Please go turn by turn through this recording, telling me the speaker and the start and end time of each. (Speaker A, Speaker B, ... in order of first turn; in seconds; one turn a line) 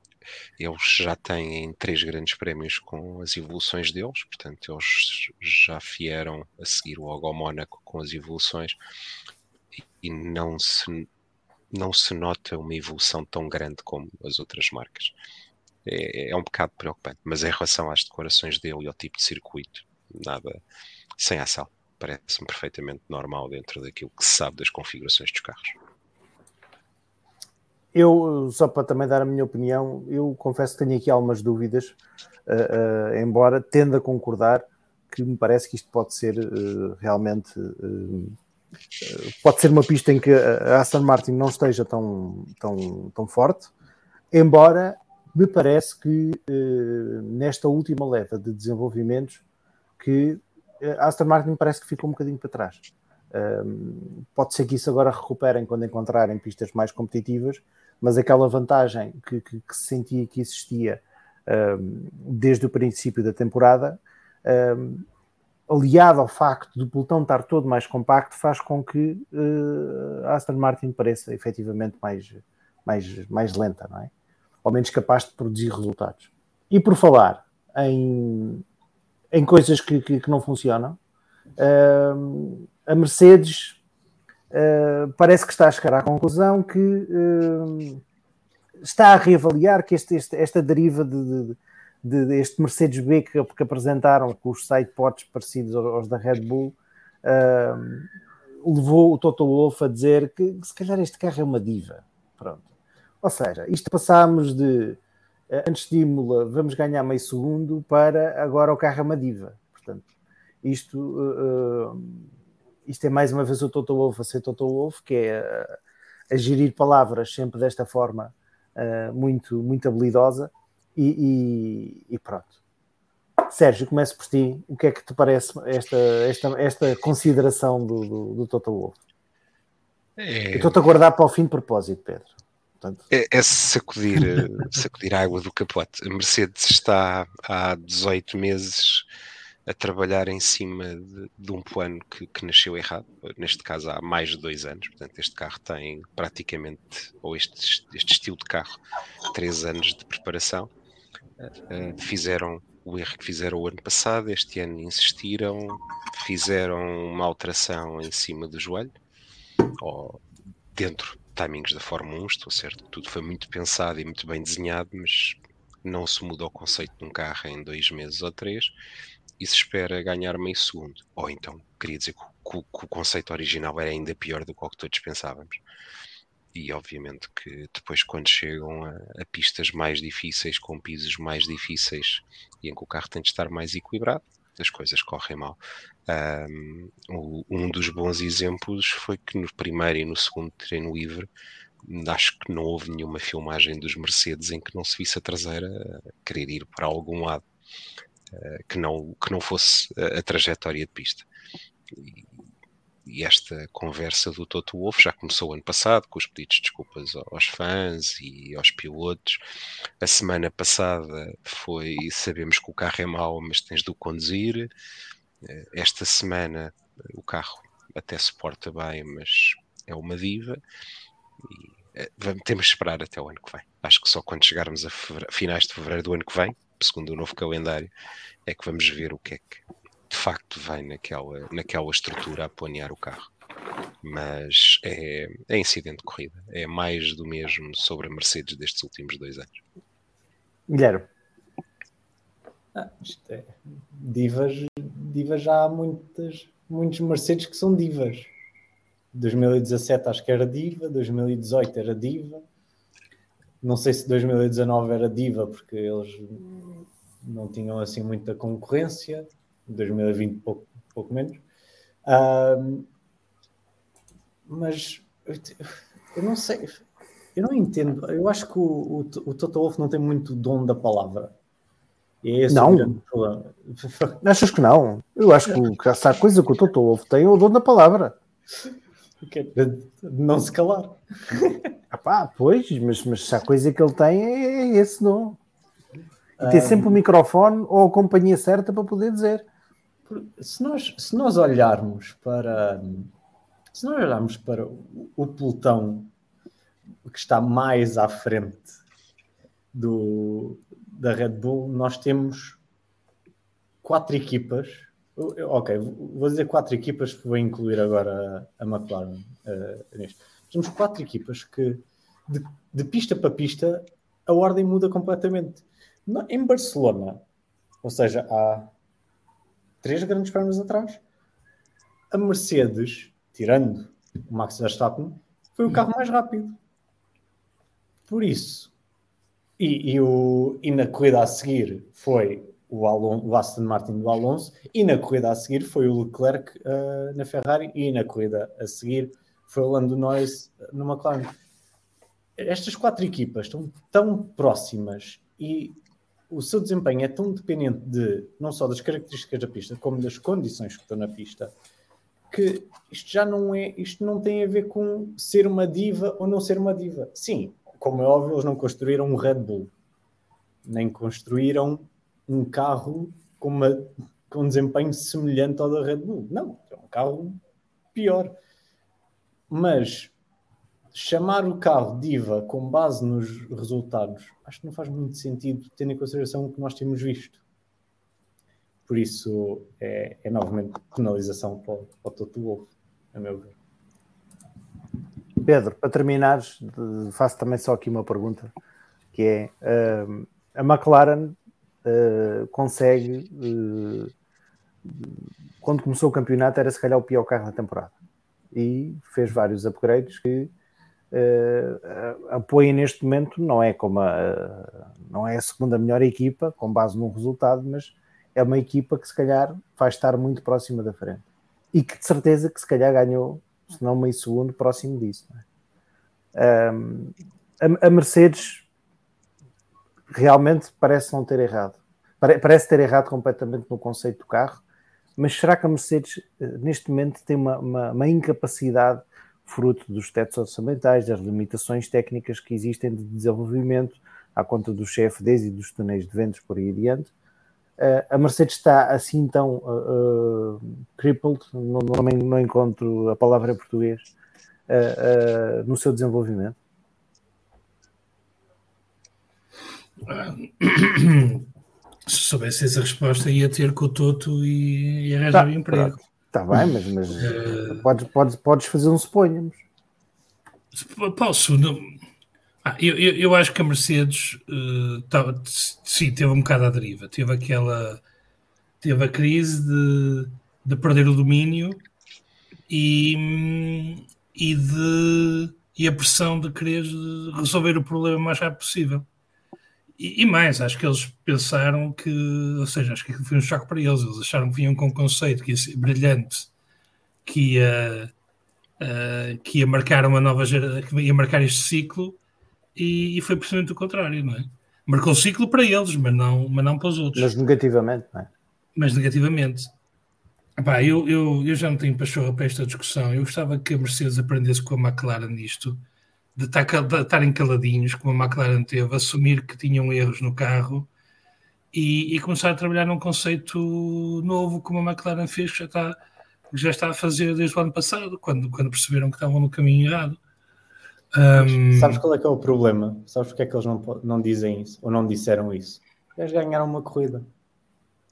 Speaker A: 0.6-8.8
Speaker A: 9.7-11.1
Speaker A: 11.7-15.1
Speaker A: 15.8-20.6
Speaker A: 21.2-25.8
Speaker B: 27.9-38.4
Speaker B: 39.0-43.7
Speaker B: 44.3-49.4
Speaker B: 50.0-65.0
Speaker B: 65.7-74.1
Speaker B: 74.6-78.6
Speaker B: 79.3-81.0
Speaker B: 81.6-83.8
Speaker B: 84.5-88.0
Speaker B: 88.8-98.1
Speaker B: 98.6-102.7
Speaker B: 103.2-105.0
Speaker B: 105.5-110.0
Speaker B: 110.6-112.3
Speaker B: 112.8-115.8
Speaker B: 116.3-122.5
Speaker B: 123.5-129.0
Speaker A: 130.2-130.7
Speaker B: 130.5-133.0
Speaker A: 133.1-139.0
Speaker A: 139.7-150.7
Speaker A: 151.4-158.9
Speaker A: 159.8-160.2
Speaker A: 160.7-168.7
Speaker A: 169.4-175.6
Speaker A: 176.5-191.3
Speaker A: 191.8-197.4
Speaker A: 198.3-201.2
Speaker A: 201.9-202.3
Speaker A: 203.1-209.4
Speaker A: 210.0-214.7
Speaker A: 215.4-220.6
Speaker A: 221.4-227.9
Speaker A: 228.5-233.3
Speaker A: 234.0-239.6
Speaker B: 240.7-241.0
Speaker C: 242.7-248.3
Speaker C: 249.1-252.4
Speaker C: 253.6-261.4
Speaker C: 262.1-262.9
Speaker C: 264.5-266.8
Speaker C: 267.3-271.3
Speaker C: 272.2-274.2
Speaker B: 272.5-273.0
Speaker B: 274.2-278.1
Speaker C: 279.2-281.7
Speaker B: 281.9-285.4
Speaker C: 286.4-286.9
Speaker B: 286.4-289.4
Speaker C: 290.1-293.1
Speaker C: 293.7-296.1
Speaker C: 297.1-298.7
Speaker C: 299.7-302.6
Speaker C: 303.8-317.2
Speaker C: 317.8-318.7
Speaker C: 319.8-321.0
Speaker C: 322.1-326.6
Speaker C: 328.1-328.7
Speaker C: 329.6-341.3
Speaker C: 342.4-351.5
Speaker C: 352.3-359.7
Speaker C: 360.6-367.4
Speaker C: 367.9-368.4
Speaker C: 369.5-370.1
Speaker C: 370.9-377.4
Speaker C: 378.9-383.5
Speaker B: 385.4-388.5
Speaker B: 389.1-394.1
Speaker B: 394.8-397.9
Speaker B: 398.5-400.5
Speaker B: 401.1-415.4
Speaker B: 416.3-418.6
Speaker B: 420.1-424.6
Speaker B: 425.2-437.1
Speaker B: 437.8-444.1
Speaker B: 444.7-446.6
Speaker D: 450.0-451.5
Speaker D: 452.1-456.0
Speaker B: 455.3-459.6
Speaker D: 457.2-457.8
Speaker D: 460.7-462.0
Speaker D: 462.6-468.0
Speaker D: 468.8-471.8
Speaker D: 472.7-479.1
Speaker D: 480.0-486.5
Speaker D: 487.2-488.1
Speaker D: 488.8-492.2
Speaker D: 492.8-497.3
Speaker B: 497.1-498.3
Speaker D: 498.8-499.7
Speaker D: 500.6-505.8
Speaker D: 506.4-510.9
Speaker D: 511.7-516.0
Speaker D: 516.5-520.2
Speaker D: 521.1-522.0
Speaker C: 521.4-527.3